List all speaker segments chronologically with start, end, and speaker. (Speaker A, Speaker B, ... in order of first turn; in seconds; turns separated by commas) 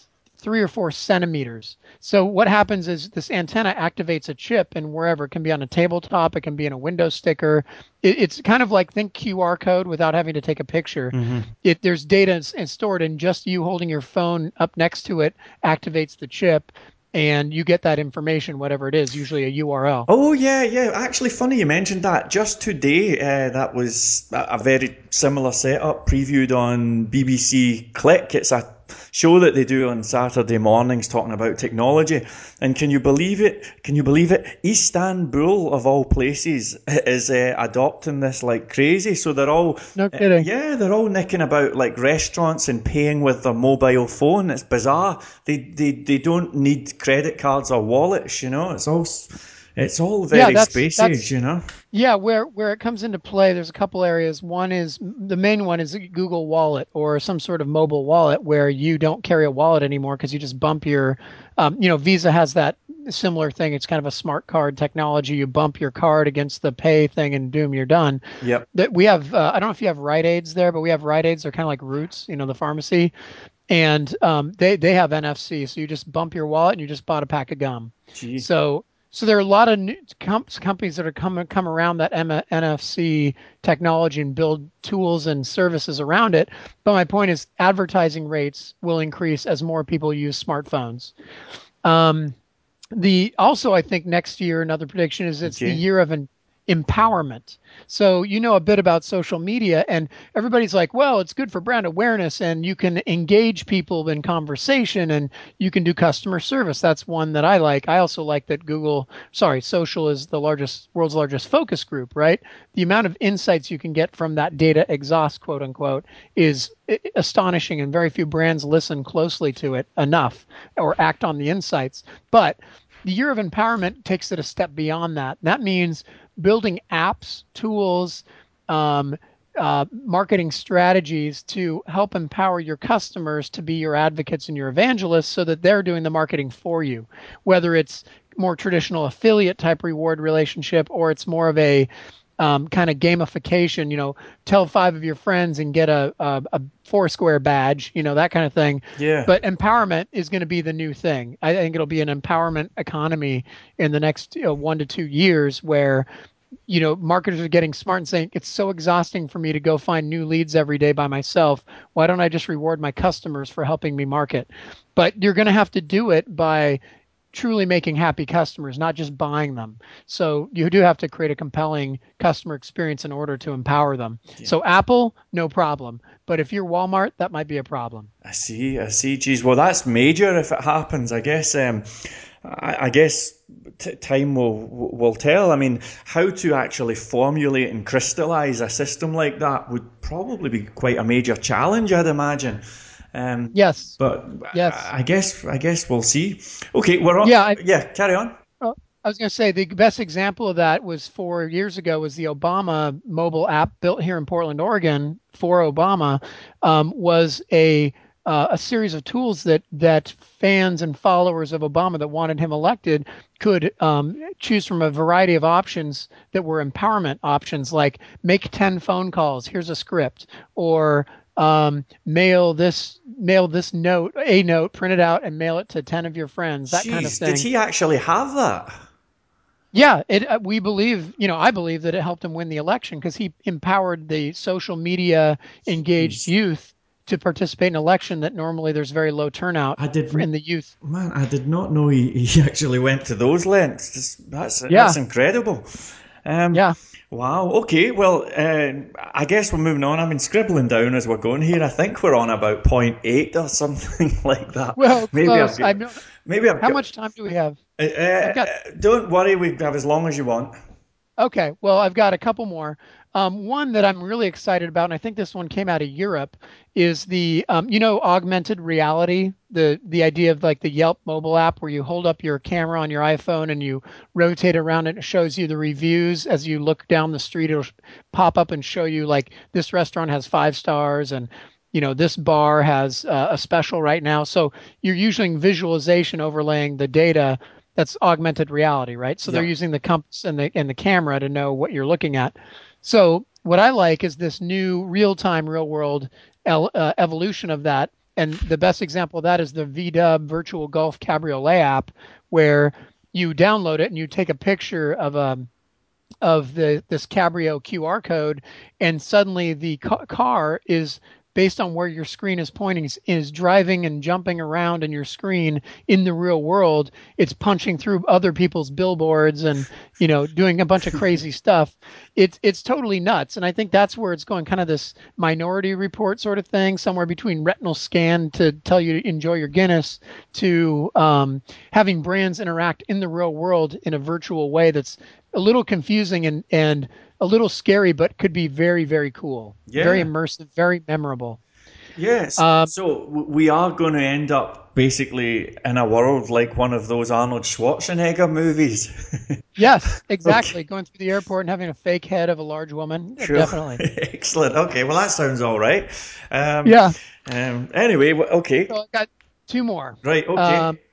Speaker A: 0.4-20.1, Speaker B: 11.1-11.5, Speaker B: 20.1-51.6, Speaker A: 40.0-40.5, Speaker A: 50.3-51.2, Speaker A: 51.9-68.2, Speaker A: 68.7-73.1, Speaker A: 73.7-91.1, Speaker B: 78.1-78.5, Speaker A: 91.8-92.3, Speaker A: 92.9-141.9, Speaker B: 95.4-95.8, Speaker A: 142.4-156.1, Speaker B: 149.0-149.3, Speaker A: 156.7-166.8, Speaker A: 167.3-178.1, Speaker B: 178.2-192.6, Speaker B: 193.1-198.3, Speaker A: 193.5-194.0, Speaker A: 194.5-194.9, Speaker A: 197.2-197.6, Speaker A: 198.6-227.5, Speaker B: 226.7-228.8, Speaker A: 229.7-240.7, Speaker B: 236.0-236.3, Speaker B: 239.8-240.2, Speaker B: 240.8-256.8, Speaker A: 244.7-245.0, Speaker A: 254.8-256.0, Speaker A: 256.6-257.6, Speaker B: 257.8-260.5, Speaker A: 258.2-258.5, Speaker A: 261.2-305.5, Speaker A: 306.2-341.4, Speaker B: 339.7-340.1, Speaker B: 341.9-349.6, Speaker A: 342.4-342.7, Speaker A: 349.6-353.8, Speaker B: 350.2-350.5, Speaker B: 353.2-358.7, Speaker A: 356.6-356.9, Speaker A: 358.7-360.8, Speaker B: 360.0-360.7